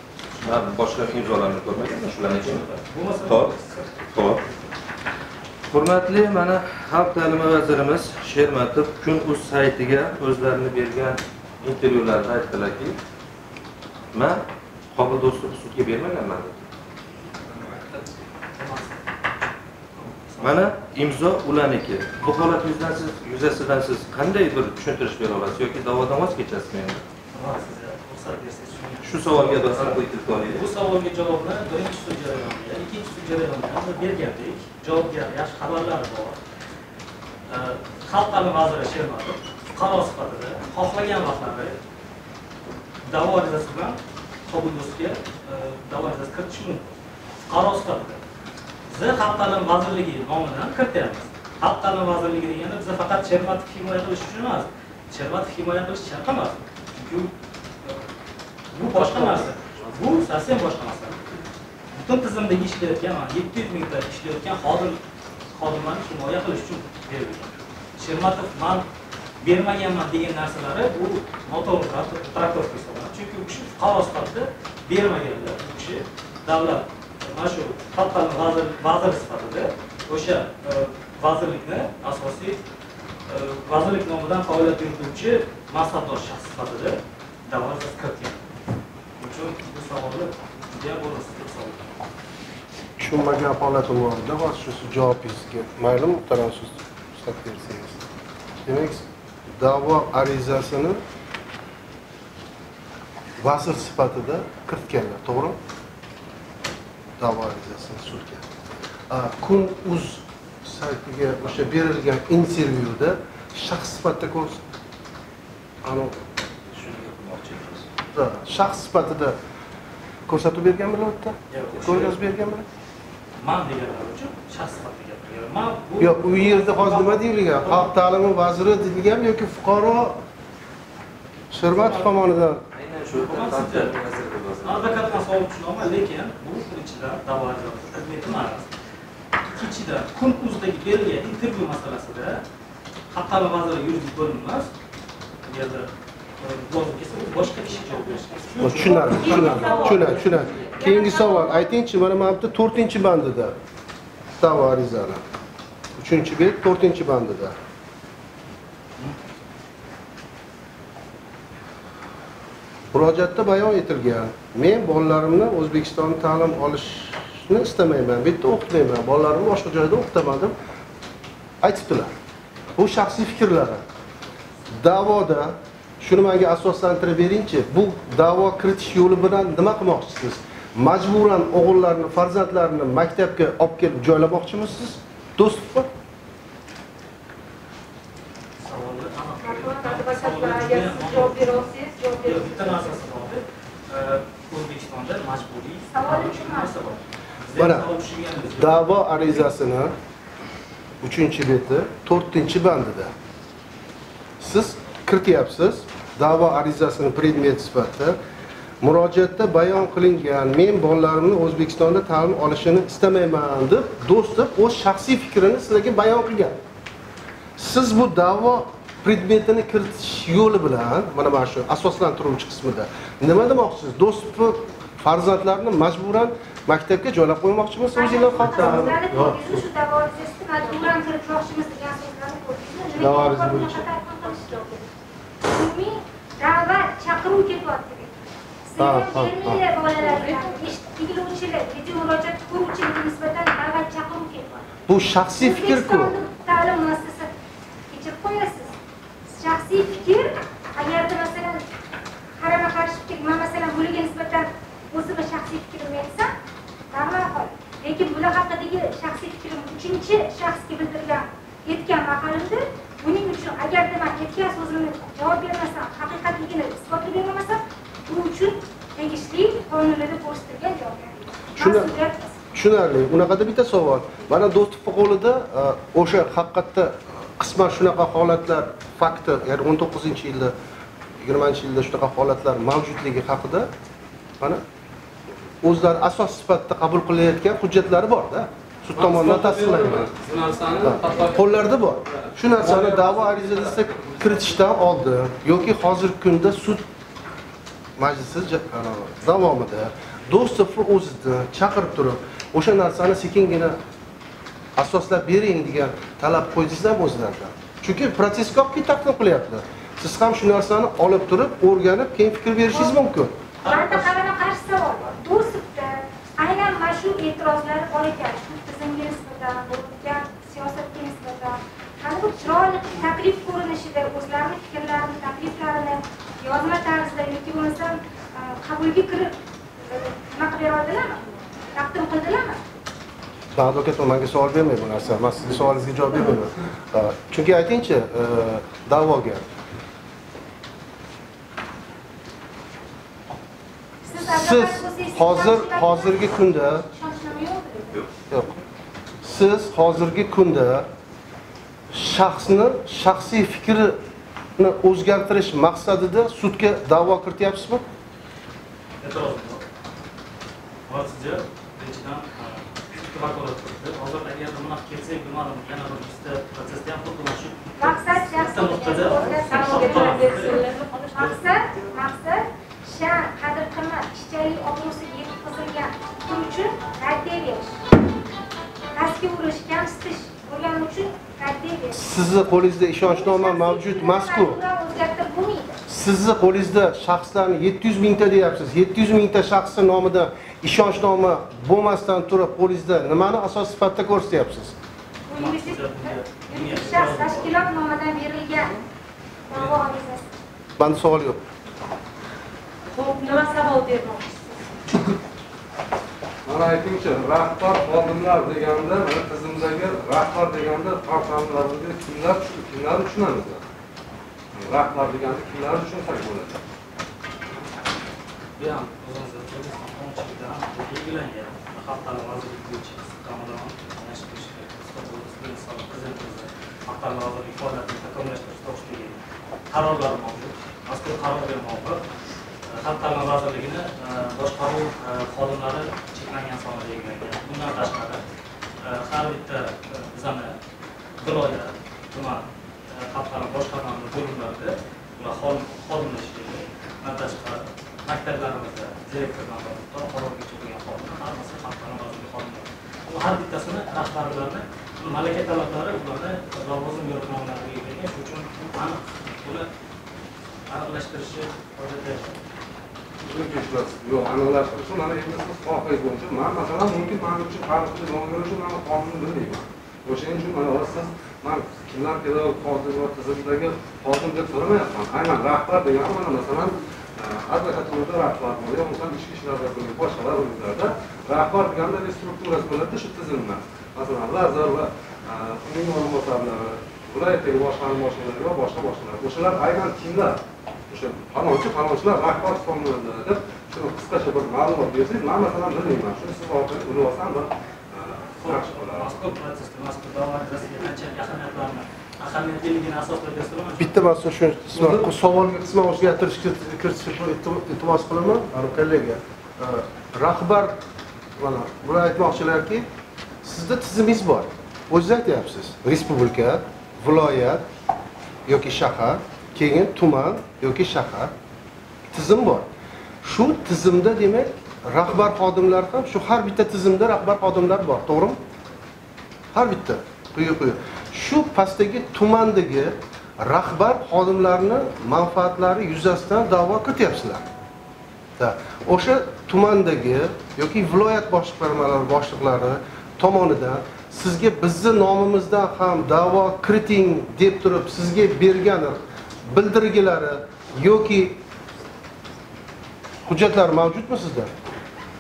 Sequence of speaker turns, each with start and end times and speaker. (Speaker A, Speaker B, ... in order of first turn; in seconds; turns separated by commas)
Speaker A: 0.4-2.6, Speaker B: 2.0-4.1, Speaker A: 3.2-3.5, Speaker A: 4.1-4.4, Speaker A: 5.7-13.0, Speaker A: 14.1-14.4, Speaker A: 14.9-16.6, Speaker B: 17.7-18.0, Speaker B: 18.6-19.0, Speaker B: 20.0-20.7, Speaker A: 20.4-27.0, Speaker B: 27.3-36.4, Speaker A: 29.0-30.7, Speaker B: 37.5-41.8, Speaker B: 43.1-46.9, Speaker B: 47.5-48.2, Speaker B: 48.9-57.3, Speaker B: 58.7-61.2, Speaker C: 59.0-59.4, Speaker B: 61.9-65.0, Speaker B: 65.5-68.8, Speaker B: 69.4-82.6, Speaker B: 83.3-88.5, Speaker B: 89.2-91.8, Speaker D: 93.0-98.0, Speaker D: 98.6-99.0, Speaker D: 99.6-101.0, Speaker D: 103.4-105.6, Speaker D: 107.2-108.4, Speaker D: 109.1-114.6, Speaker D: 115.8-116.2, Speaker A: 116.7-117.9, Speaker D: 118.1-119.4, Speaker D: 120.3-122.7, Speaker B: 121.5-122.2, Speaker B: 123.4-127.9, Speaker D: 126.0-130.2, Speaker D: 131.5-132.6, Speaker B: 131.7-132.1, Speaker A: 132.7-135.3, Speaker B: 133.1-134.0, Speaker B: 134.6-138.7, Speaker B: 139.5-142.4, Speaker B: 143.1-144.7, Speaker B: 145.4-150.8, Speaker D: 148.6-153.6, Speaker E: 149.2-151.6, Speaker D: 154.4-155.2, Speaker D: 156.0-157.6, Speaker D: 162.9-170.5, Speaker D: 171.6-172.1, Speaker D: 172.8-173.8, Speaker D: 174.8-185.9, Speaker B: 188.6-191.6, Speaker E: 189.4-192.9, Speaker B: 192.2-198.9, Speaker F: 195.9-196.9, Speaker D: 197.6-197.9, Speaker D: 198.6-199.9, Speaker D: 201.0-203.1, Speaker D: 204.4-208.2, Speaker D: 208.8-216.6, Speaker D: 217.6-229.7, Speaker F: 227.9-234.7, Speaker E: 230.6-230.9, Speaker D: 233.0-233.9, Speaker E: 234.2-234.9, Speaker F: 235.4-244.6, Speaker D: 238.8-239.6, Speaker E: 240.0-240.6, Speaker D: 244.9-246.2, Speaker F: 245.3-247.3, Speaker F: 247.9-248.8, Speaker F: 249.3-251.6, Speaker F: 252.4-256.3, Speaker F: 256.9-272.4, Speaker D: 271.6-271.9, Speaker D: 272.5-280.5, Speaker D: 281.2-283.7, Speaker D: 285.6-290.1, Speaker C: 289.0-294.7, Speaker D: 290.8-296.8, Speaker D: 298.0-303.8, Speaker D: 304.8-313.4, Speaker B: 313.6-314.2, Speaker F: 313.6-332.6, Speaker D: 333.5-339.5, Speaker F: 344.0-348.1, Speaker D: 344.2-346.9, Speaker D: 348.3-348.6, Speaker D: 349.2-350.9, Speaker D: 351.9-354.0, Speaker D: 354.6-357.8, Speaker B: 359.0-359.6, Speaker B: 360.9-371.5, Speaker F: 367.8-377.8, Speaker E: 369.3-371.1, Speaker F: 378.9-382.1, Speaker D: 381.9-384.6, Speaker F: 383.0-385.8, Speaker D: 385.9-394.8, Speaker F: 395.3-398.8, Speaker B: 395.3-397.6, Speaker F: 399.5-400.3, Speaker B: 399.5-399.9, Speaker D: 400.8-401.4, Speaker E: 402.9-404.6, Speaker C: 406.5-413.6, Speaker C: 414.6-416.6, Speaker B: 418.6-432.0, Speaker B: 432.7-438.2, Speaker B: 438.8-440.6, Speaker B: 441.2-459.7, Speaker B: 460.7-462.4, Speaker C: 463.2-499.2, Speaker B: 498.4-504.0, Speaker D: 503.8-510.8, Speaker D: 511.4-512.9, Speaker D: 513.4-517.7, Speaker D: 518.5-521.3, Speaker D: 522.1-522.7, Speaker D: 523.2-528.4, Speaker D: 529.5-537.5, Speaker D: 538.4-551.4, Speaker D: 553.3-554.5